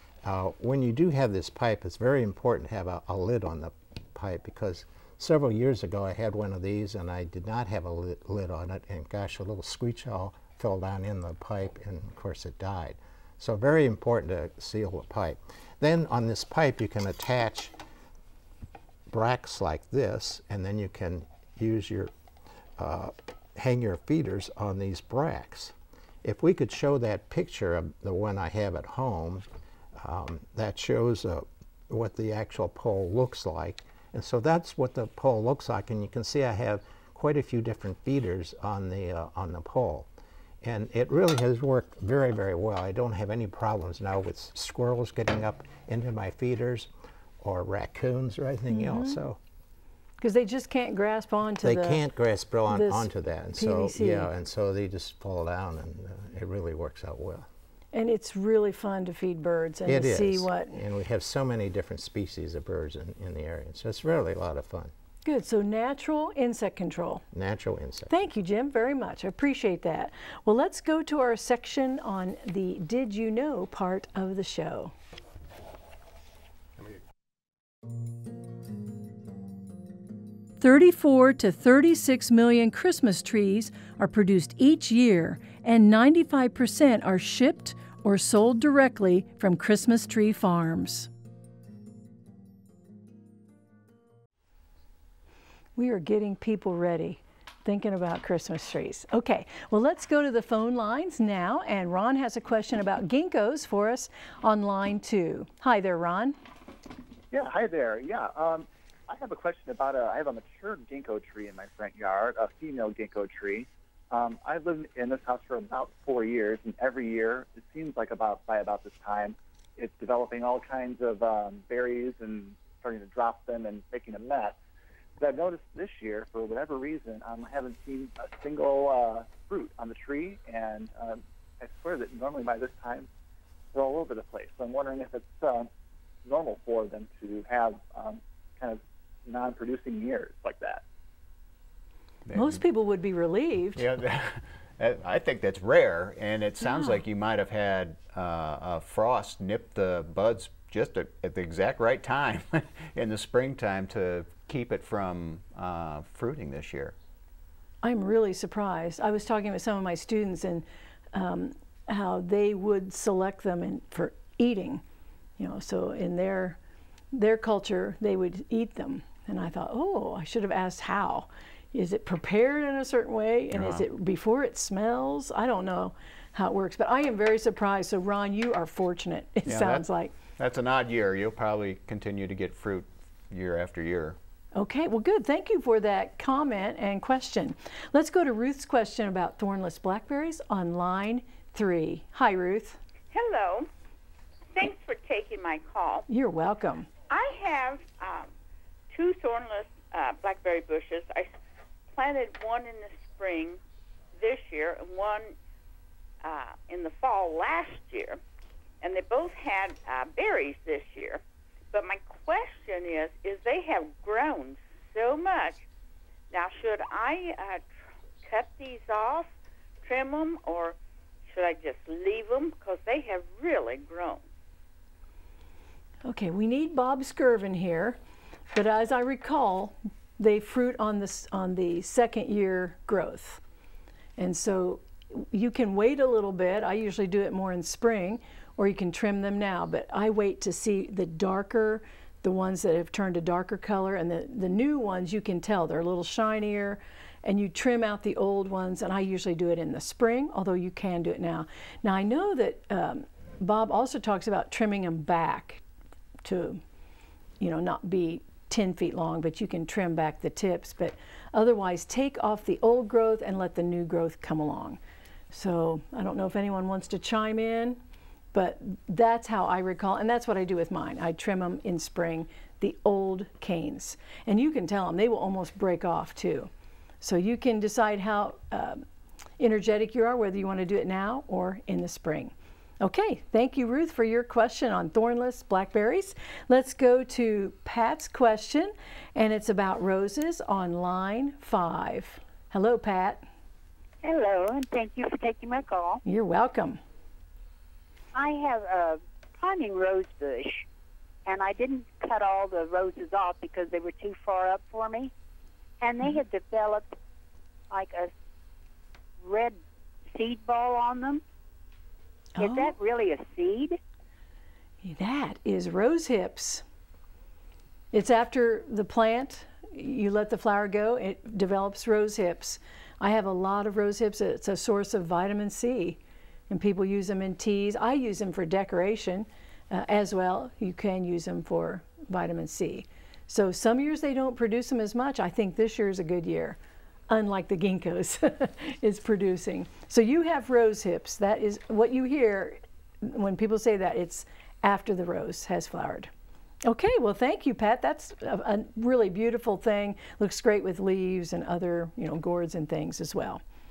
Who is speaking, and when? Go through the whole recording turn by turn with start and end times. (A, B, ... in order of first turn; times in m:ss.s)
0:00.2-0:17.7 A
0:19.1-0:22.1 A
0:22.8-0:40.1 A
0:40.6-0:49.4 A
0:48.7-0:49.2 B
0:50.2-0:52.0 B
0:51.6-0:57.5 A
0:52.7-0:54.3 B
0:57.9-1:00.8 B
0:59.9-1:04.9 A
1:05.2-1:07.2 B
1:07.3-1:08.1 A
1:08.1-1:14.9 B
1:20.6-1:31.1 B
1:35.8-1:46.4 B
1:47.3-2:04.6 C
2:05.2-2:13.1 C
2:13.7-2:15.7 C
2:16.2-2:20.8 C
2:22.3-2:22.6 D
2:22.3-2:23.8 B
2:23.8-2:37.0 D
2:26.6-2:27.0 B
2:37.8-2:44.8 B
2:45.4-2:46.6 B
2:47.1-3:00.1 B
2:53.5-2:53.8 D
2:59.5-3:04.2 D
3:04.6-3:12.8 B
3:13.1-3:13.7 E
3:14.5-3:16.1 E
3:16.1-3:16.9 B
3:17.1-3:18.3 E
3:18.9-3:21.3 E
3:21.9-3:23.6 E
3:24.2-3:25.4 E
3:26.2-3:28.2 E
3:28.8-3:31.2 E
3:31.7-3:35.7 E
3:36.3-3:37.7 E
3:38.2-3:39.3 E
3:39.8-3:40.8 E
3:41.3-3:44.2 E
3:46.0-3:48.0 B
3:48.5-3:53.4 B
3:54.2-4:15.6 B
4:16.2-4:16.6 B
4:17.4-4:24.8 B
4:25.3-4:27.8 B
4:28.3-4:36.5 B
4:37.0-4:38.8 B
4:39.4-4:53.2 B
4:54.0-4:56.0 F
4:56.0-4:56.8 B
4:58.2-5:00.6 F
5:01.3-5:05.1 F
5:05.8-5:06.9 F
5:07.7-5:08.1 F
5:09.2-5:09.6 F
5:10.1-5:11.2 F
5:12.4-5:12.7 B
5:12.4-5:13.8 F
5:14.8-5:16.6 B
5:17.9-5:26.0 B
5:26.5-5:46.1 B
5:46.6-5:53.4 B